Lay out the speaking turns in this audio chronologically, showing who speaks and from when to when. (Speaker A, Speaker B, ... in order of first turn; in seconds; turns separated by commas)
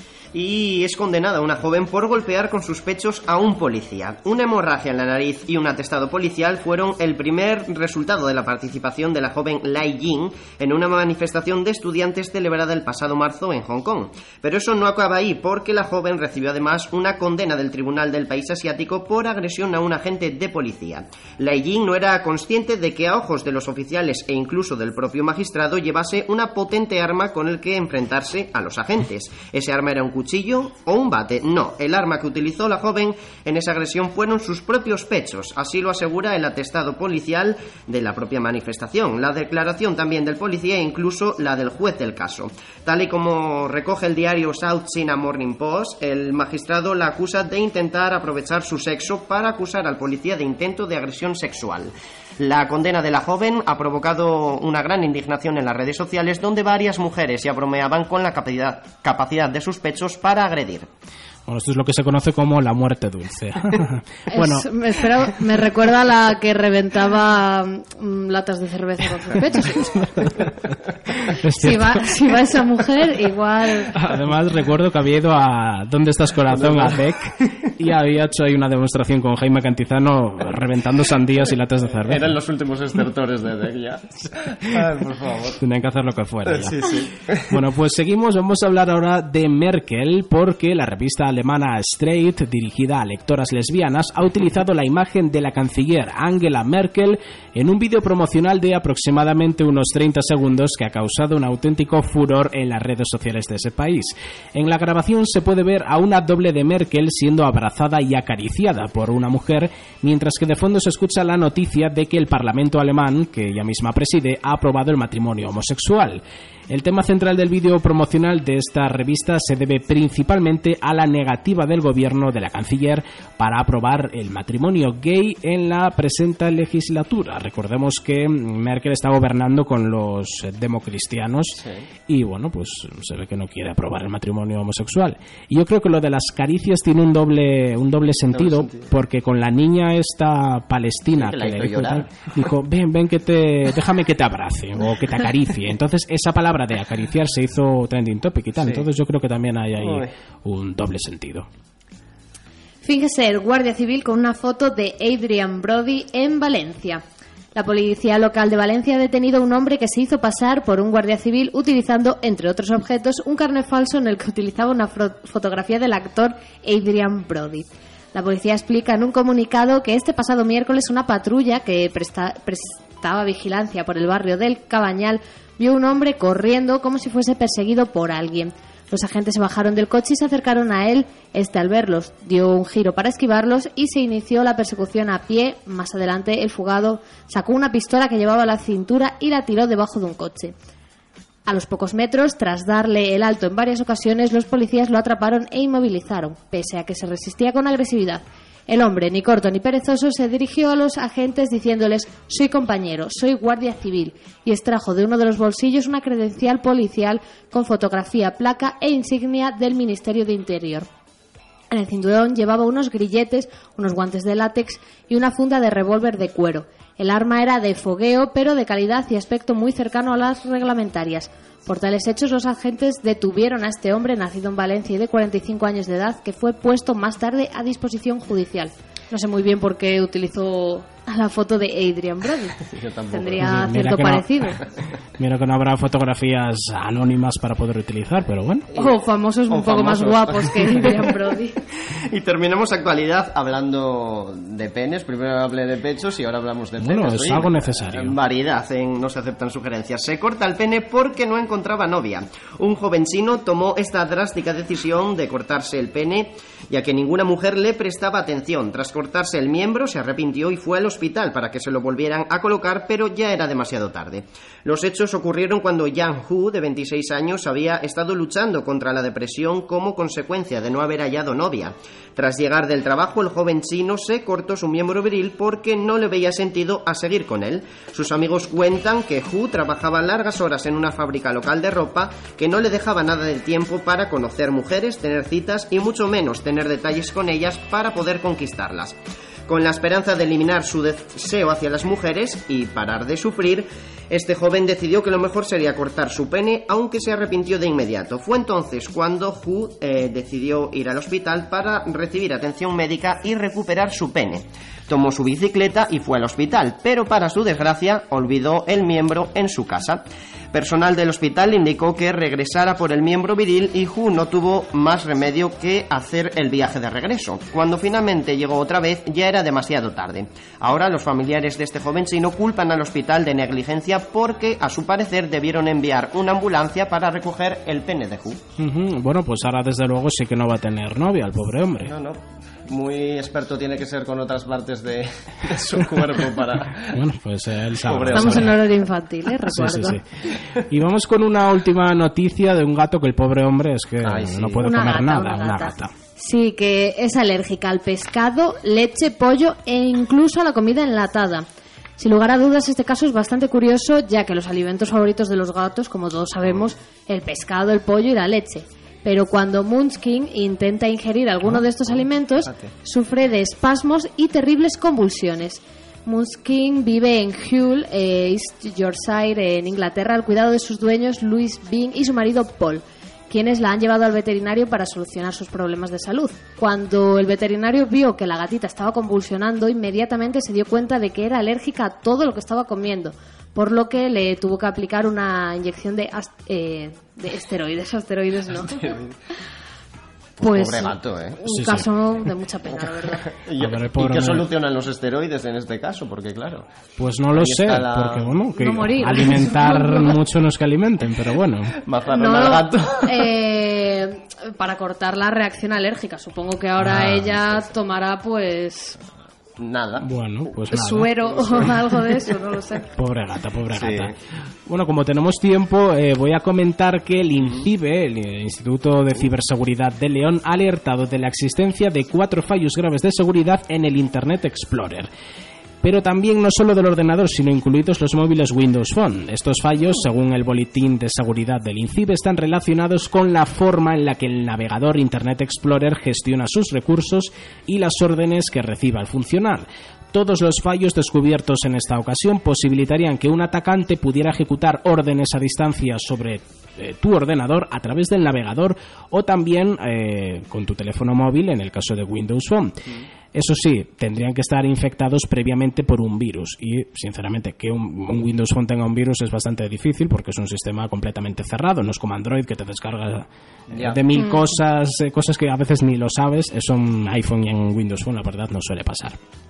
Speaker A: 0.3-60.9, Speaker B: 61.5-64.7, Speaker C: 64.3-70.3, Speaker B: 70.2-72.0, Speaker C: 71.6-74.0, Speaker B: 73.9-82.3, Speaker A: 76.5-77.0, Speaker A: 82.0-85.6, Speaker B: 85.6-151.5, Speaker A: 86.4-87.6, Speaker A: 131.5-131.9, Speaker A: 138.3-138.9, Speaker A: 141.1-142.3, Speaker A: 148.6-148.9, Speaker A: 149.8-150.1, Speaker C: 152.8-157.0, Speaker C: 157.5-190.5, Speaker C: 191.5-210.9, Speaker C: 211.7-234.6, Speaker A: 232.6-233.6, Speaker B: 233.4-234.3, Speaker B: 235.2-238.7, Speaker A: 238.7-241.1, Speaker C: 238.8-241.6, Speaker A: 241.9-328.4, Speaker B: 246.8-248.1, Speaker B: 328.6-331.9, Speaker A: 331.8-337.0, Speaker B: 336.9-338.6, Speaker A: 337.7-338.6, Speaker C: 338.1-340.0, Speaker B: 339.5-340.0, Speaker B: 340.6-345.9, Speaker A: 344.0-344.7, Speaker C: 344.6-351.4, Speaker C: 352.0-388.9, Speaker A: 361.4-362.7, Speaker A: 388.6-389.1, Speaker A: 390.4-391.4, Speaker C: 390.4-393.3, Speaker B: 391.4-391.9, Speaker A: 393.1-396.7, Speaker B: 393.6-394.4, Speaker B: 397.0-401.8, Speaker A: 397.3-398.4, Speaker C: 398.5-400.1, Speaker A: 401.7-403.3, Speaker C: 402.1-409.0, Speaker B: 406.8-407.3, Speaker A: 409.6-410.6, Speaker B: 410.0-411.1, Speaker C: 410.7-412.9, Speaker A: 411.2-411.9, Speaker B: 412.9-414.1, Speaker A: 413.7-414.1, Speaker B: 414.7-425.1, Speaker A: 417.4-417.7, Speaker B: 425.8-469.2, Speaker A: 463.7-464.1, Speaker C: 464.2-464.4